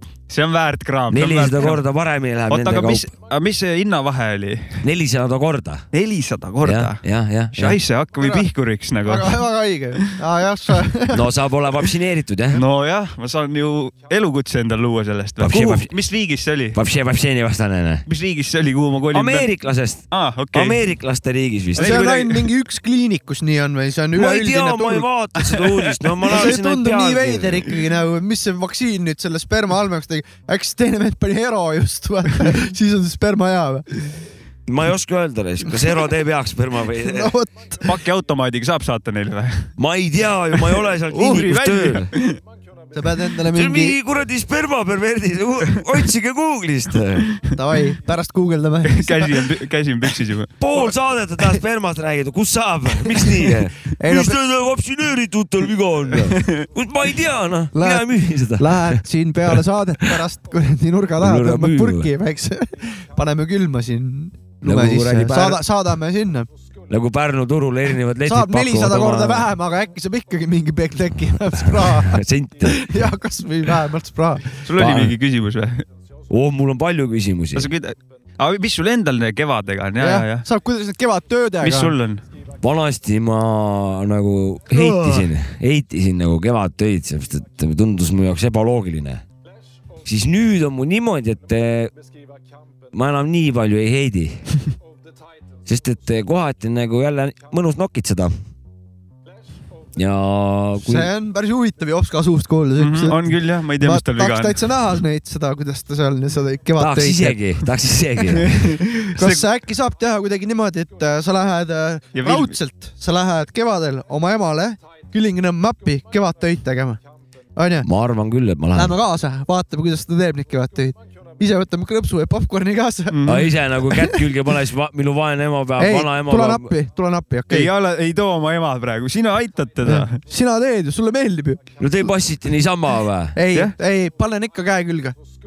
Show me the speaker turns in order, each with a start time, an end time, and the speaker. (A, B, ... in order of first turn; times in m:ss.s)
0:00.3-0:01.8 A
0:01.1-0:03.1 B
0:02.5-0:04.8 A
0:04.8-0:05.8 B
0:05.9-0:07.0 A
0:06.6-0:07.8 B
0:07.5-0:09.4 A
0:08.2-0:08.5 C
0:09.1-0:11.3 C
0:11.1-0:12.6 B
0:12.5-0:16.8 A
0:15.4-0:15.9 B
0:16.7-0:18.0 B
0:18.1-0:19.5 A
0:19.1-0:22.0 B
0:20.1-0:20.8 A
0:21.8-0:22.5 A
0:21.8-0:25.7 C
0:24.1-0:27.7 B
0:26.2-0:33.9 C
0:34.7-0:37.3 B
0:37.0-0:38.0 C
0:37.8-0:39.7 A
0:39.8-0:42.1 B
0:41.1-0:42.4 A
0:42.9-0:44.0 C
0:43.5-0:47.3 B
0:47.5-0:49.5 C
0:48.8-0:50.5 A
0:50.6-0:59.0 B
0:54.0-0:54.4 C
0:57.7-1:06.5 C
1:01.2-1:02.1 B
1:04.6-1:05.6 B
1:06.9-1:09.5 B
1:08.2-1:14.5 C
1:11.6-1:12.9 B
1:14.6-1:15.8 A
1:14.8-1:15.1 B
1:16.3-1:17.7 B
1:17.6-1:20.4 A
1:20.0-1:22.0 C
1:21.6-1:22.2 A
1:22.6-1:29.2 B
1:24.7-1:25.3 C
1:30.0-1:31.9 B
1:32.9-1:34.4 B
1:35.7-1:38.3 B
1:40.0-1:41.1 B
1:40.8-1:47.4 C
1:42.8-1:44.7 A
1:46.8-1:48.5 B
1:48.4-1:49.4 A
1:49.1-1:57.0 C
1:52.1-1:52.6 A
1:57.6-1:57.9 C
1:57.8-1:58.9 B
1:58.7-2:03.2 C
2:03.1-2:03.5 A
2:03.2-2:06.7 B
2:03.9-2:04.1 C
2:05.8-2:07.7 C
2:07.5-2:10.2 A
2:09.8-2:11.6 C
2:11.8-2:13.4 B
2:13.4-2:15.1 C